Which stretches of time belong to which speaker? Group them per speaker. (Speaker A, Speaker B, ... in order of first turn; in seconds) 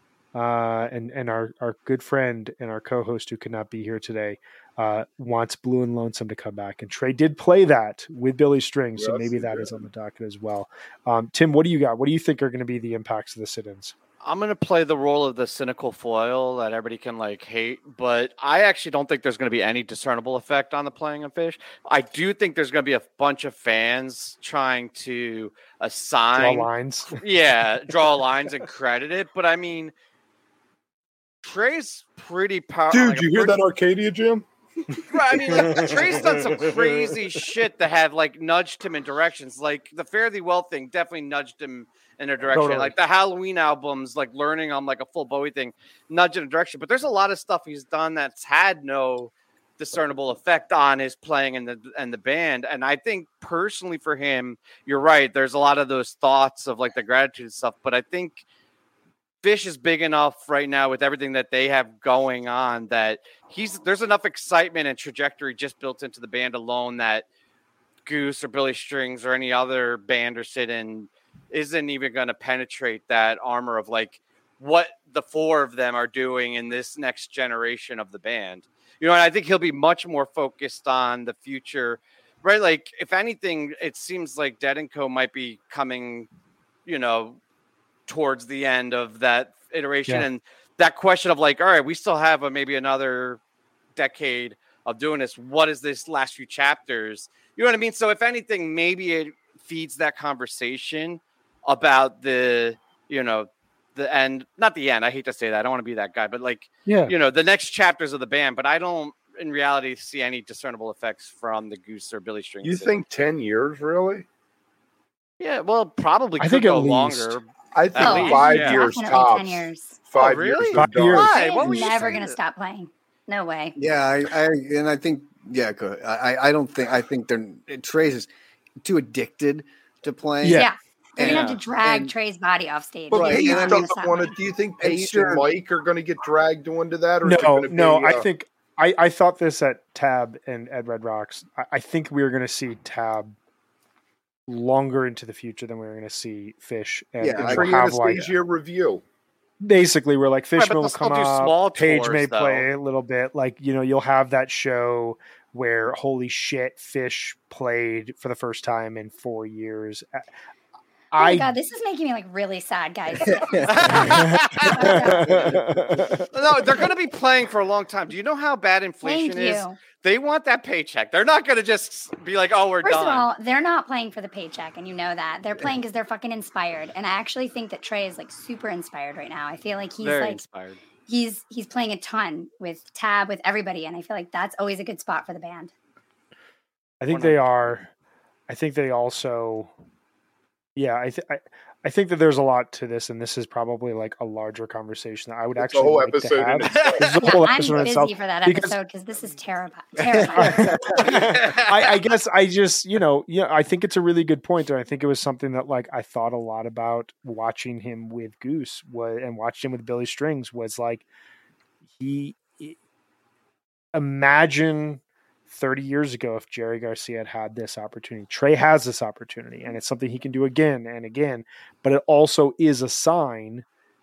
Speaker A: 0.3-13.9, 26.4-27.2, 35.5-36.9, 42.5-42.9, 106.9-107.2, 116.4-117.4, 120.7-121.9, 130.4-130.7, 137.2-143.3, 144.5-148.3, 149.6-160.3, 161.1-161.5, 164.2-166.3, 187.0-187.9, 188.5-189.7, 190.8-198.8, 200.3-211.1, 211.9-212.8, 213.9-223.7
Speaker B: 9.0-9.8, 32.9-36.6, 112.6-114.3, 117.8-121.3, 133.1-138.2, 147.4-149.0, 195.6-197.1
Speaker C: 14.2-29.9, 31.4-33.6, 35.1-58.4, 59.4-67.3, 68.1-86.3, 86.8-87.4, 88.1-93.4, 94.0-113.0, 115.4-119.0, 120.2-122.4, 131.2-131.6, 150.6-152.7, 163.7-164.9, 166.3-173.2, 180.0-180.8, 187.1-187.4, 196.7-197.2, 201.2-201.8
Speaker D: 118.0-120.0, 121.2-123.8, 130.5-134.3, 161.2-165.4, 169.0-169.8, 172.8-180.4, 181.1-185.7, 197.2-200.9
Speaker E: 123.8-128.3, 128.8-132.1, 133.1-133.8, 134.8-135.5, 147.2-147.7, 163.2-163.9, 165.3-166.1, 200.0-201.1